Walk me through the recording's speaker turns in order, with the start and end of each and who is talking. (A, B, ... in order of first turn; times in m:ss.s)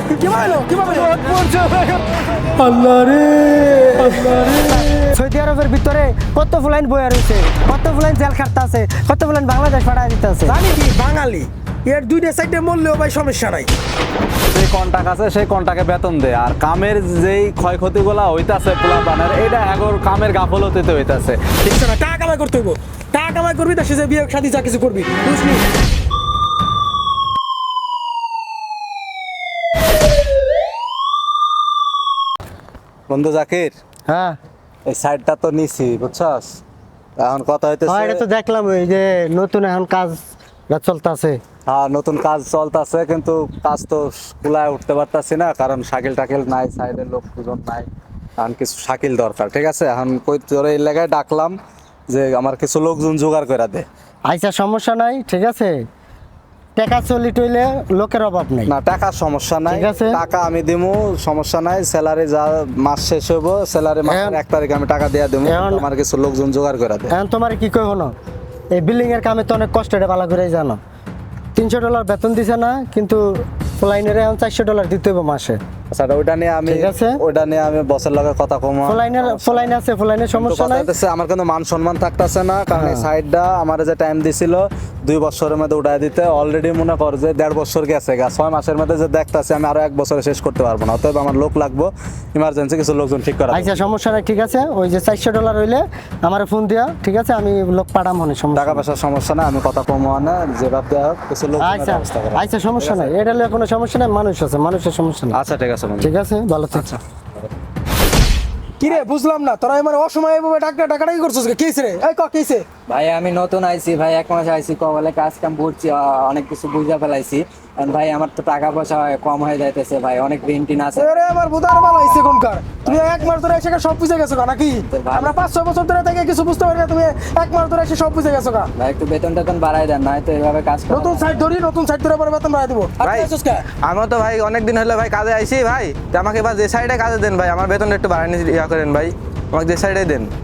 0:00.2-0:01.3 A
0:02.8-0:10.6 B
0:10.5-0:13.7 A
0:14.5-0:21.6 C
0:21.6-0:25.6 A
0:33.1-0:33.7 C
0:34.1-0:34.4 B
0:34.9-0:36.6 C
0:37.2-0:38.2 C
0:37.8-0:41.4 B
0:41.7-0:47.9 C
0:48.4-0:51.6 C
0:52.1-0:53.8 C
0:54.3-0:55.8 B
0:56.8-0:58.7 B
0:58.7-1:07.1 C
0:59.7-1:00.2 B
1:04.0-1:04.4 B
1:05.4-1:05.9 B
1:07.1-1:08.1 B
1:08.7-1:10.8 B
1:11.6-1:15.6 B
1:15.9-1:19.8 C
1:16.6-1:17.2 B
1:18.8-1:20.9 B
1:20.3-1:33.8 C
1:22.7-1:23.1 B
1:33.5-1:38.9 B
1:38.6-1:42.5 C
1:41.6-1:45.4 B
1:45.3-1:46.1 C
1:46.0-1:47.0 B
1:48.8-1:52.7 A
1:52.9-2:01.3 D
2:01.0-2:08.7 A
2:02.8-2:03.3 D
2:04.9-2:05.4 D
2:08.8-2:11.4 D
2:10.9-2:13.7 A
2:13.8-2:20.3 E